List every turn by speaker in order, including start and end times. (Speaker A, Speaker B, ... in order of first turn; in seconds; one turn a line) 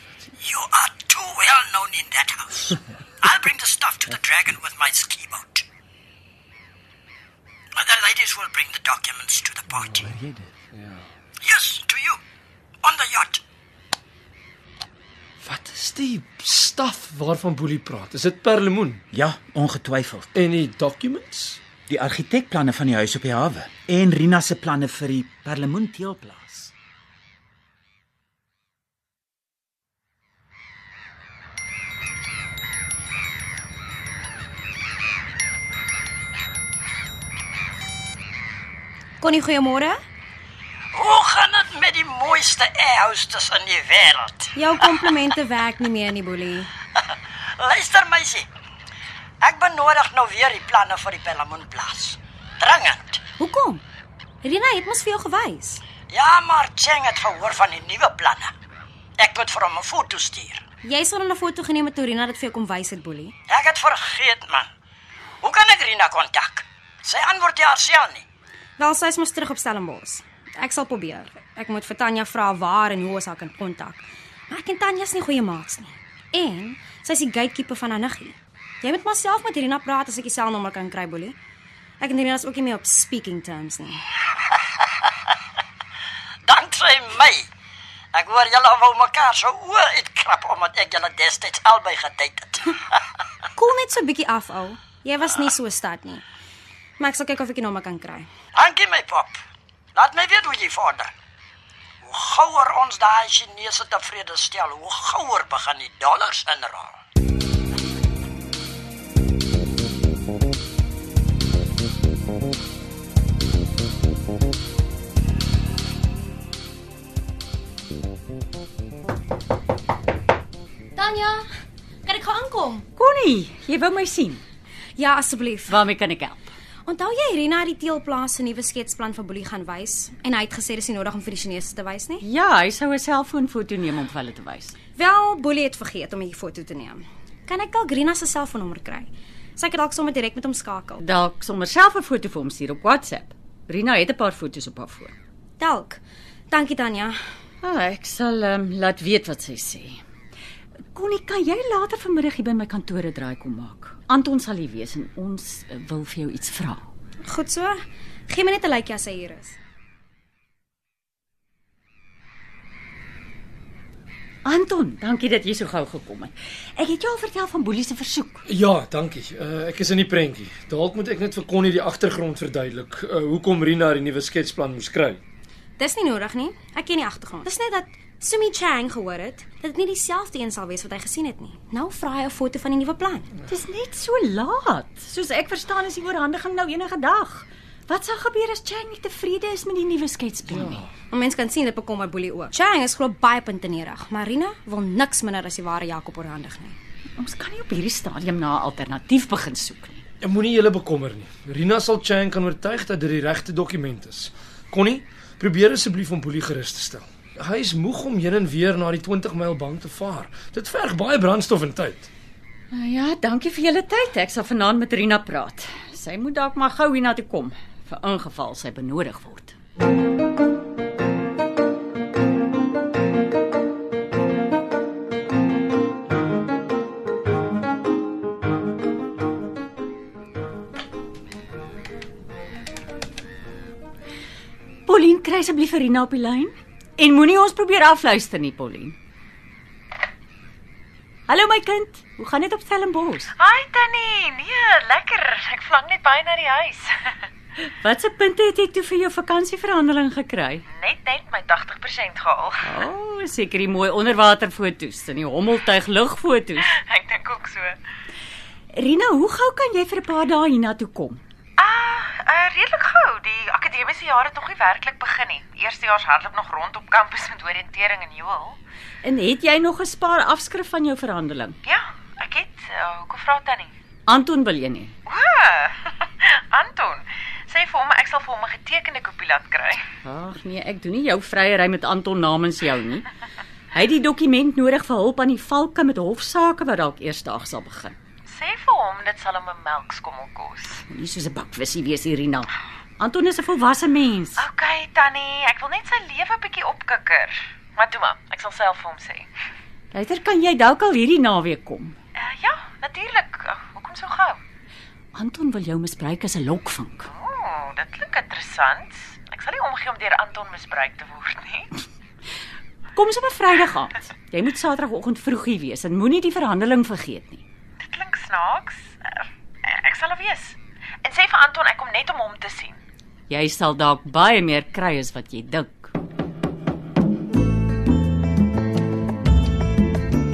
Speaker A: 0.4-2.6
Speaker A: 3.2-5.6
Speaker A: 7.8-10.0
Speaker B: 9.8-10.1
Speaker B: 10.7-11.0
Speaker A: 11.4-12.2
Speaker A: 12.8-13.4
Speaker B: 15.4-19.0
Speaker C: 19.1-20.3
Speaker B: 20.3-21.6
Speaker C: 21.9-26.7
Speaker D: 39.2-40.0
Speaker A: 40.9-44.5
Speaker D: 44.5-46.7
Speaker A: 47.6-48.4
Speaker A: 49.4-53.2
Speaker E: 53.4-53.8
Speaker D: 54.4-55.8
Speaker A: 56.1-58.5
Speaker A: 59.2-60.6
Speaker D: 60.8-63.3
Speaker A: 63.5-64.6
Speaker A: 65.4-68.2
Speaker D: 68.8-81.4
Speaker D: 82.0-84.0
Speaker A: 86.5-87.4
Speaker A: 88.2-92.7
Speaker D: 93.5-96.2
Speaker D: 97.0-98.3
Speaker A: 98.6-99.3
Speaker A: 100.0-101.1
Speaker A: 102.0-106.9
Speaker D: 120.9-121.5
Speaker D: 122.0-122.8
Speaker E: 122.9-124.4
Speaker D: 125.0-125.8
Speaker E: 125.7-126.5
Speaker D: 126.8-132.2
Speaker E: 132.2-134.7
Speaker D: 134.9-141.0
Speaker E: 141.0-145.1
Speaker D: 145.6-147.2
Speaker E: 147.6-150.0
Speaker E: 150.9-156.8
Speaker D: 157.2-159.5
Speaker E: 164.4-168.4
Speaker B: 168.5-175.2
Speaker D: 175.8-183.3
Speaker E: 183.5-190.9
Speaker B: 190.5-190.8
Speaker D: 191.1-196.8
Speaker E: 197.2-200.0
Speaker B: 200.2-212.1
Speaker E: 212.7-219.5
Speaker E: 234.8-238.9
Speaker E: 241.3-243.3
Speaker F: 243.4-247.2
Speaker E: 247.8-250.6
Speaker F: 250.7-252.7
Speaker E: 252.6-256.7
Speaker F: 256.6-257.8
Speaker E: 258.7-261.2
Speaker F: 261.6-268.6
Speaker E: 269.0-271.6
Speaker F: 271.6-273.7
Speaker E: 274.1-274.9
Speaker F: 275.1-279.8
Speaker E: 280.0-283.1
Speaker E: 283.7-287.9
Speaker F: 288.3-290.8
Speaker E: 290.9-294.4
Speaker F: 294.4-299.3
Speaker E: 299.9-301.9
Speaker F: 302.1-304.4
Speaker E: 305.1-307.1
Speaker F: 307.1-311.7
Speaker E: 312.9-317.4
Speaker F: 317.8-322.8
Speaker E: 323.3-325.9